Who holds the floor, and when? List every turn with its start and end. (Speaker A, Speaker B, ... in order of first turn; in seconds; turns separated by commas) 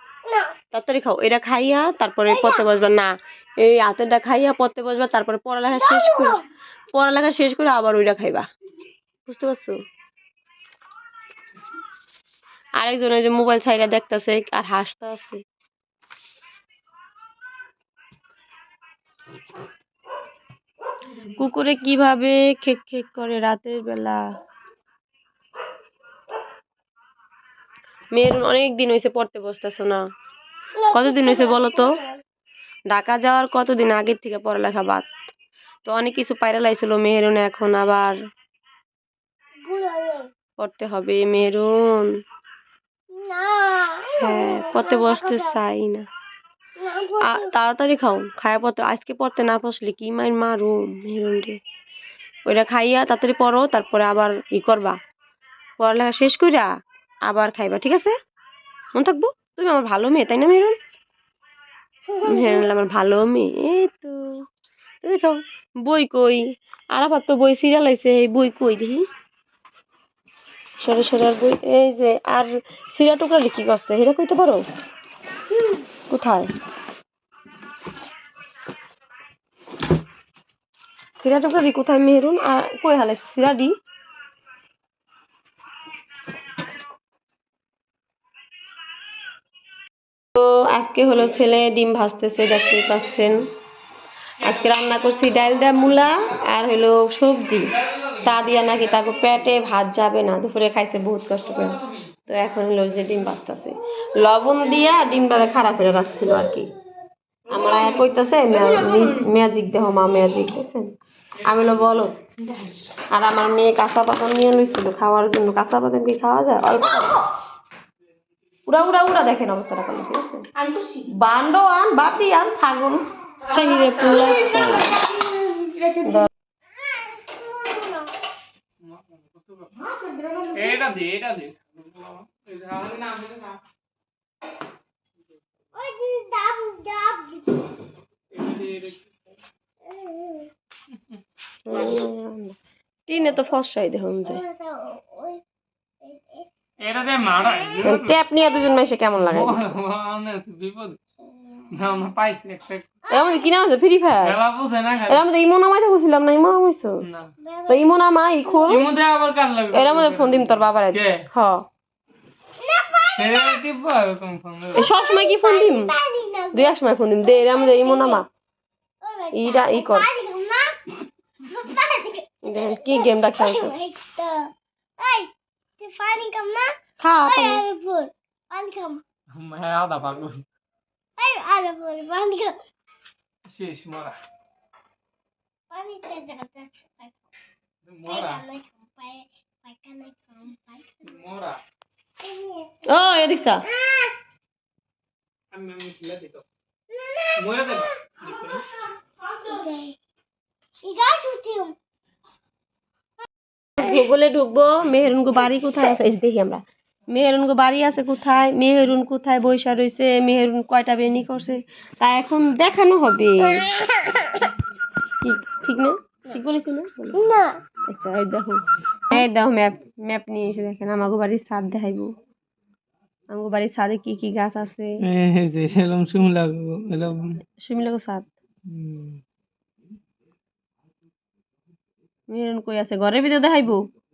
Speaker A: 0.3-0.6, Speaker B: 0.7-6.4, Speaker A: 2.3-2.6, Speaker A: 5.7-6.4, Speaker B: 6.9-8.5, Speaker B: 9.3-9.8, Speaker B: 12.8-15.4, Speaker B: 21.3-24.2, Speaker B: 28.1-30.0, Speaker A: 30.8-32.2, Speaker B: 30.9-31.9, Speaker B: 32.9-35.1, Speaker B: 35.9-38.1, Speaker A: 39.6-40.3, Speaker B: 40.6-42.1, Speaker A: 43.1-45.6, Speaker B: 44.2-46.1, Speaker A: 46.8-47.5, Speaker B: 47.2-51.6, Speaker B: 52.5-55.0, Speaker B: 55.8-56.7, Speaker B: 57.3-58.1, Speaker B: 59.0-60.8, Speaker A: 62.1-62.7, Speaker B: 62.2-64.2, Speaker B: 65.0-69.0, Speaker B: 70.8-74.6, Speaker B: 76.1-76.5, Speaker B: 81.2-83.7, Speaker B: 90.3-93.5, Speaker B: 94.4-106.7, Speaker C: 97.8-99.3, Speaker C: 107.5-109.2, Speaker B: 107.5-110.9, Speaker B: 111.4-112.2, Speaker C: 112.5-112.8, Speaker B: 113.1-117.2, Speaker B: 118.7-125.0, Speaker C: 125.5-126.0, Speaker B: 126.0-126.3, Speaker A: 126.8-128.1, Speaker C: 128.8-129.9, Speaker C: 130.5-133.6, Speaker A: 135.8-137.7, Speaker C: 138.3-139.1, Speaker A: 139.8-140.5, Speaker B: 141.7-142.6, Speaker A: 141.7-142.1, Speaker B: 143.1-144.4, Speaker A: 144.3-145.4, Speaker A: 146.0-146.5, Speaker C: 146.8-148.2, Speaker A: 147.4-147.8, Speaker B: 147.8-149.7, Speaker A: 148.4-148.7, Speaker C: 149.2-151.0, Speaker C: 151.7-152.9, Speaker A: 153.1-153.5, Speaker B: 153.1-154.4, Speaker C: 154.2-155.2, Speaker B: 155.1-157.0, Speaker C: 157.0-157.3, Speaker A: 157.4-157.9, Speaker B: 157.7-158.9, Speaker A: 158.5-158.8, Speaker C: 158.7-161.2, Speaker B: 159.7-161.7, Speaker A: 162.6-163.6, Speaker C: 163.2-164.9, Speaker B: 164.8-165.9, Speaker A: 164.8-168.2, Speaker B: 166.5-168.3, Speaker A: 169.0-179.0, Speaker B: 169.3-170.1, Speaker B: 172.5-173.8, Speaker B: 177.0-177.6, Speaker C: 179.3-180.4, Speaker A: 181.2-182.6, Speaker C: 183.5-184.2, Speaker A: 185.7-187.1, Speaker C: 187.8-188.4, Speaker A: 188.1-191.0, Speaker C: 191.0-191.6, Speaker A: 192.2-194.2, Speaker B: 192.9-193.7, Speaker C: 195.5-196.4, Speaker A: 196.9-197.9, Speaker C: 197.4-198.6, Speaker A: 199.3-200.0, Speaker A: 200.8-201.8, Speaker B: 203.8-213.7, Speaker A: 213.7-214.4, Speaker B: 215.2-217.2, Speaker A: 217.1-217.6, Speaker B: 217.9-222.1, Speaker B: 223.3-224.9, Speaker C: 225.0-227.3, Speaker B: 227.6-228.3, Speaker C: 228.7-229.2, Speaker B: 232.3-233.8